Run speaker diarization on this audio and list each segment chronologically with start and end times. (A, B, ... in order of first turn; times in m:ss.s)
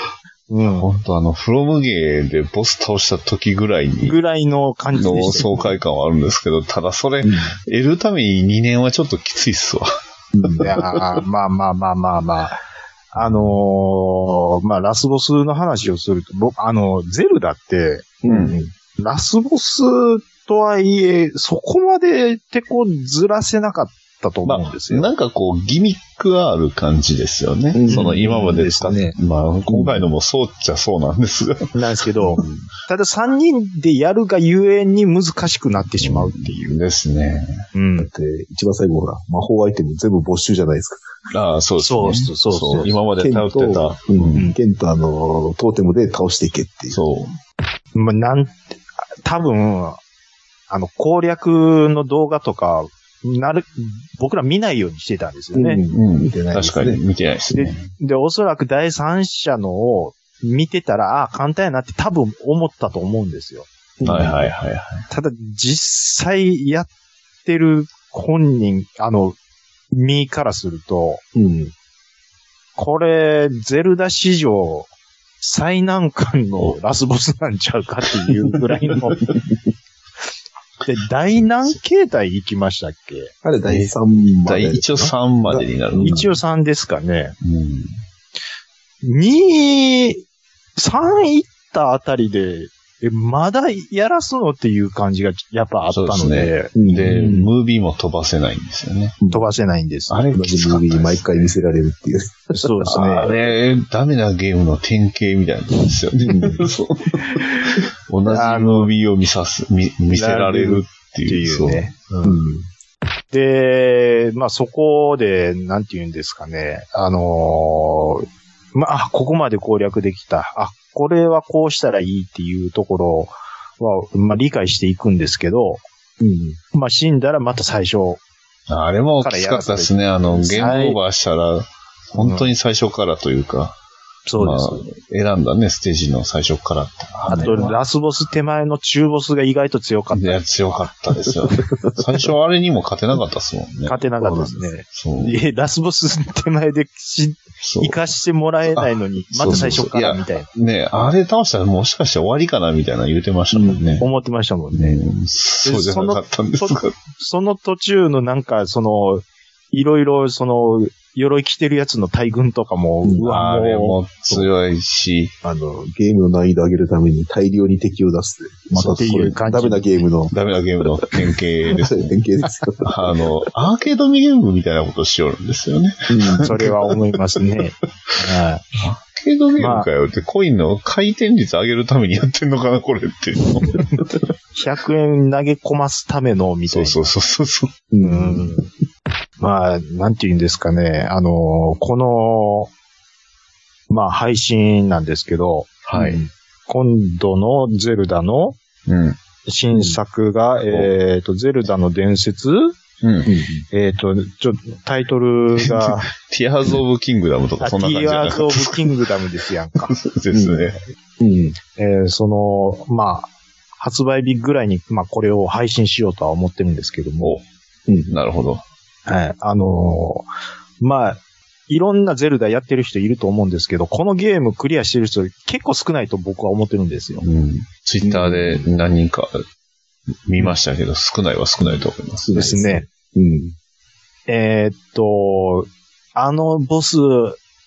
0:00.5-0:00.9 A
0:00.7-0:04.2 B
0:04.0-0:05.7 A
0:04.9-0:09.9 B
0:07.2-0:07.5 C
0:10.3-0:10.7 C
0:10.6-0:12.6 A
0:13.2-0:18.1 A
0:18.2-0:18.7 C
0:18.3-0:18.6 B
0:19.0-0:25.1 A
0:24.4-0:31.7 B
0:27.7-0:28.3 C
0:27.9-0:29.2 A
0:29.7-0:30.1 C
0:31.8-0:36.7 A
0:32.4-0:32.6 B
0:36.0-0:37.6 B
0:37.7-0:38.1 A
0:38.0-0:41.0 C
0:41.3-0:44.5 B
0:41.8-0:42.9 A
0:42.7-0:47.0 C
0:46.9-0:47.4 B
0:48.0-0:50.0 A
0:50.7-0:55.8 A
0:55.5-0:57.0 C
0:55.9-0:57.9 B
0:57.5-1:03.7 A
1:04.0-1:04.5 C
1:04.0-1:05.0 B
1:05.1-1:06.9 A
1:07.4-1:09.4 A
1:09.9-1:11.2 A
1:11.4-1:11.7 C
1:12.8-1:14.9 A
1:15.4-1:19.2 A
1:20.8-1:23.3 A
1:23.4-1:26.3 C
1:23.7-1:26.3 B
1:26.0-1:27.4 A
1:27.4-1:28.0 B
1:29.0-1:30.2 A
1:30.8-1:36.7 A
1:35.9-1:39.2 B
1:36.8-1:37.5 C
1:39.2-1:39.5 C
1:39.3-1:40.2 A
1:40.1-1:41.5 B
1:40.3-1:42.7 C
1:42.5-1:43.3 A
1:42.9-1:51.9 B
1:46.2-1:46.7 C
1:48.3-1:48.9 A
1:50.1-1:52.4 A
1:52.2-1:52.7 C
1:53.3-2:05.8 A
2:06.2-2:06.6 C
2:06.7-2:08.2 A
2:08.7-2:13.8 B
2:09.2-2:11.0 A
2:12.2-2:12.5 A
2:14.3-2:14.8 A
2:14.4-2:17.8 B
2:17.3-2:20.4 A
2:17.3-2:17.7 C
2:20.1-2:24.0 B
2:21.5-2:22.0 C
2:23.9-2:30.5 A
2:24.2-2:24.7 C
2:24.9-2:25.4 B
2:27.6-2:28.0 B
2:28.8-2:34.1 B
2:29.5-2:29.8 C
2:33.5-2:34.0 C
2:34.0-2:35.0 A
2:34.7-2:37.0 B
2:35.6-2:44.5 A
2:43.0-2:43.3 C
2:43.3-2:45.3 B
2:45.4-2:50.3 C
2:48.7-2:50.0 A
2:50.3-2:52.2 B
2:51.8-2:53.2 C
2:52.9-2:56.9 B
2:56.1-2:56.5 C
2:56.4-2:58.6 A
2:58.8-3:04.1 B
2:59.6-2:59.9 A
3:04.6-3:07.0 A
3:06.7-3:07.7 B
3:07.9-3:08.6 C
3:08.0-3:08.7 A
3:09.4-3:12.7 A
3:13.9-3:15.8 A
3:15.9-3:16.2 B
3:16.0-3:16.3 C
3:16.7-3:18.6 A
3:18.9-3:19.2 B
3:19.5-3:22.7 A
3:23.0-3:23.3 B
3:23.3-3:23.6 C
3:23.7-3:26.1 A
3:25.6-3:29.0 B
3:27.6-3:29.9 A
3:29.9-3:30.8 B
3:30.3-3:31.6 C
3:31.8-3:37.4 A
3:37.9-3:38.2 C
3:38.1-3:38.6 B
3:39.1-3:40.3 A
3:40.8-3:47.3 A
3:47.2-3:49.4 B
3:48.0-3:48.7 C
3:50.3-3:52.3 B
3:51.6-3:53.6 C
3:52.3-3:52.8 A
3:54.3-3:57.4 A